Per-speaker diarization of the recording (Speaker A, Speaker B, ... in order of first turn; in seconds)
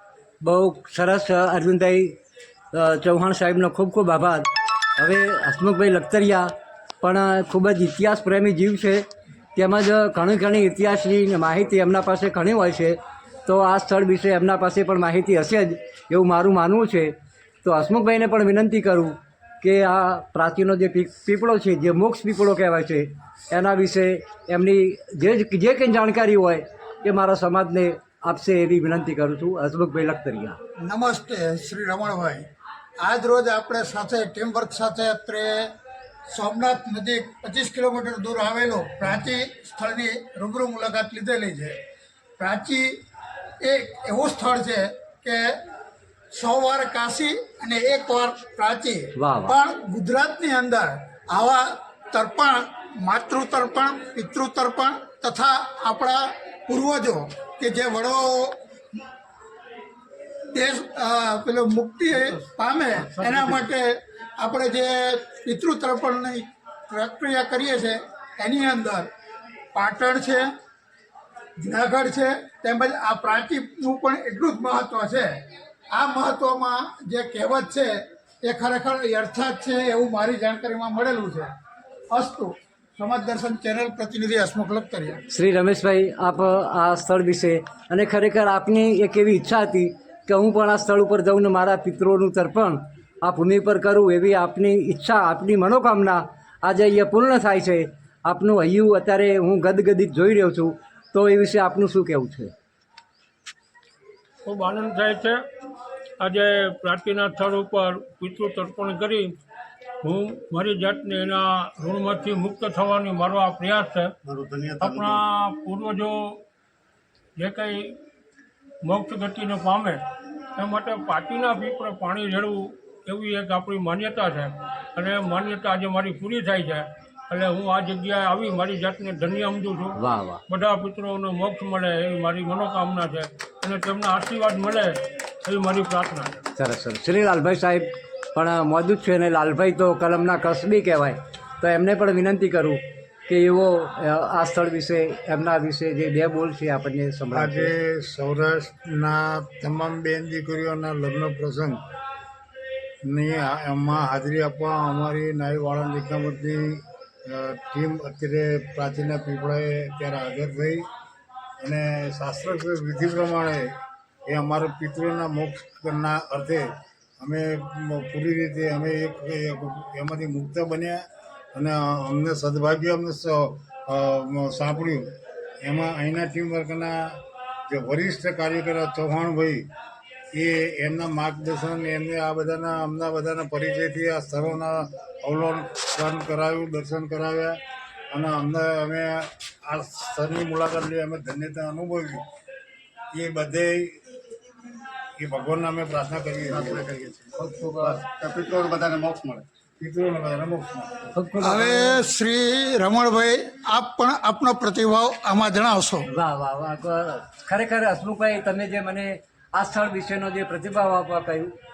Speaker A: 0.4-2.2, 2.7-30.6, 49.2-49.6, 85.3-102.5, 130.0-130.4, 136.6-147.7, 197.4-198.0, 201.1-202.0, 206.1-211.6
Speaker B: 30.8-32.4, 33.0-35.7, 36.3-41.8, 42.4-43.0, 43.6-45.5, 46.3-58.6, 60.5-69.1, 69.7-70.5, 71.6-75.3, 75.9-77.9, 78.4-81.5, 82.1-85.2, 201.4-206.1
Speaker C: 63.0-63.7, 114.2-115.2, 196.4-199.4
Speaker D: 104.5-105.4, 106.2-109.3, 110.0-114.1, 114.8-116.4, 117.4-118.0, 118.8-120.0, 120.6-130.0, 130.5-136.4
Speaker E: 147.3-151.8, 153.1-160.8, 161.6-163.7, 164.3-179.7, 180.3-187.6, 188.1-192.2, 193.2-194.1, 195.2-196.7, 199.8-201.1